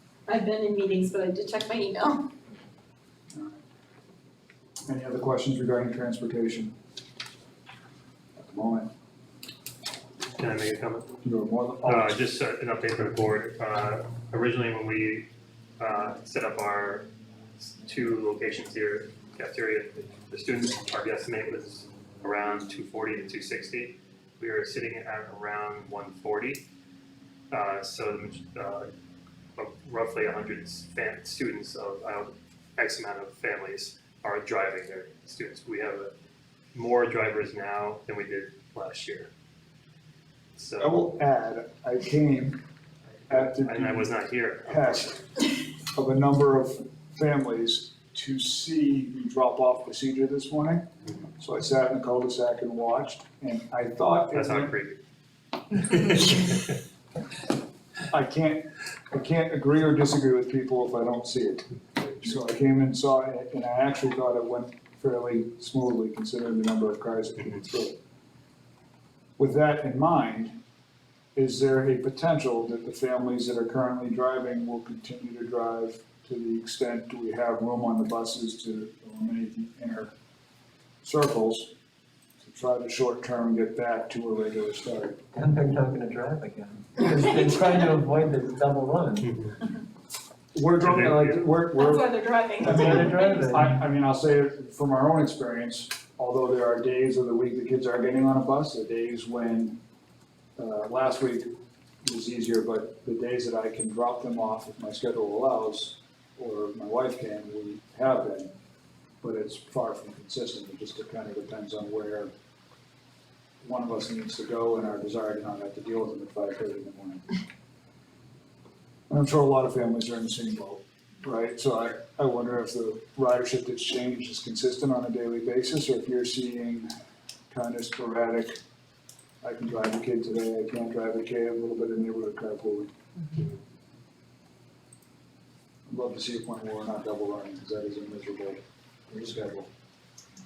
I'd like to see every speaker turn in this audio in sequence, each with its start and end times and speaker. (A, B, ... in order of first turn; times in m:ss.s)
0:00.3-0:02.3 A
0:03.3-0:03.6 B
0:04.9-0:06.7 B
0:08.4-0:08.9 B
0:10.4-0:11.2 C
0:11.2-0:12.2 B
0:11.8-0:17.1 C
0:17.8-0:26.6 C
0:27.5-0:28.9 C
0:29.6-0:36.1 C
0:36.7-0:39.3 C
0:40.5-0:41.0 C
0:40.8-0:42.6 B
0:43.3-0:45.2 C
0:43.3-0:44.1 B
0:44.6-0:45.3 B
0:45.9-0:50.8 B
0:51.4-0:54.7 B
0:54.3-0:55.0 C
0:55.7-0:56.6 C
0:58.1-1:08.0 B
1:09.4-1:10.6 B
1:11.3-1:20.1 B
1:21.0-1:21.7 B
1:22.4-1:25.2 B
1:25.3-1:29.3 D
1:29.2-1:29.6 C
1:30.5-1:39.8 B
1:30.8-1:31.4 C
1:31.7-1:33.4 A
1:32.6-1:33.8 D
1:40.6-1:41.5 B
1:42.0-1:48.5 B
1:49.2-1:52.3 B
1:53.6-1:57.2 B
1:59.1-2:06.9 B
2:07.5-2:08.6 B
2:09.4-2:12.9 B
2:15.9-2:19.7 B